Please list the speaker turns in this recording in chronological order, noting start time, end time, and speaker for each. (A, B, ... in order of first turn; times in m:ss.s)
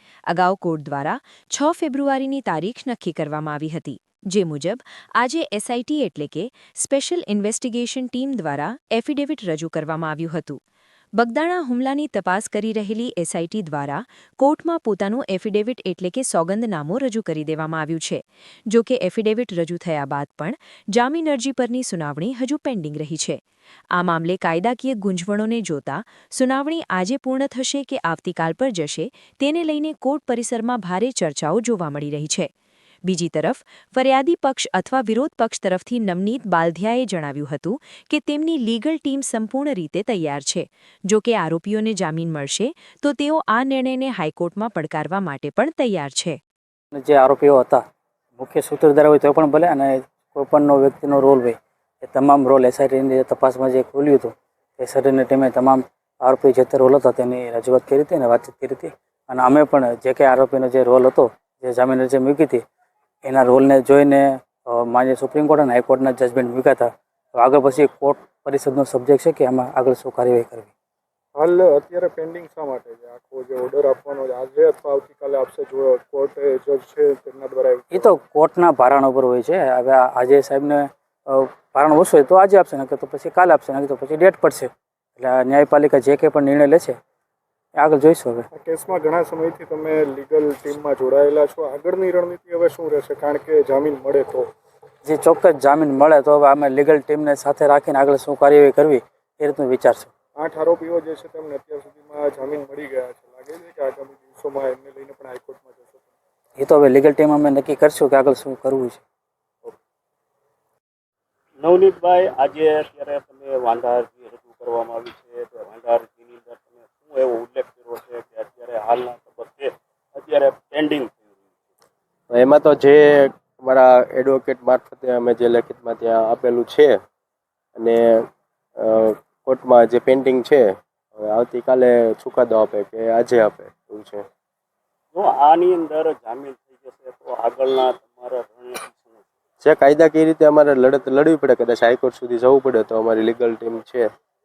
0:00.3-0:10.6 A
0:11.2-0:23.4 A
0:23.9-0:32.5 A
0:33.0-0:46.4 A
0:46.9-0:47.8 B
0:48.4-1:02.6 B
1:03.2-1:10.7 B
1:11.3-1:18.1 C
1:18.0-1:26.9 B
1:27.8-1:28.5 B
1:28.5-1:34.5 C
1:35.0-1:40.1 B
1:40.4-1:46.1 C
1:46.6-1:49.0 B
1:51.6-2:01.5 D
2:02.3-2:07.0 E
2:07.8-2:08.2 E
2:08.8-2:14.2 E
2:15.1-2:19.2 D
2:19.6-2:24.1 E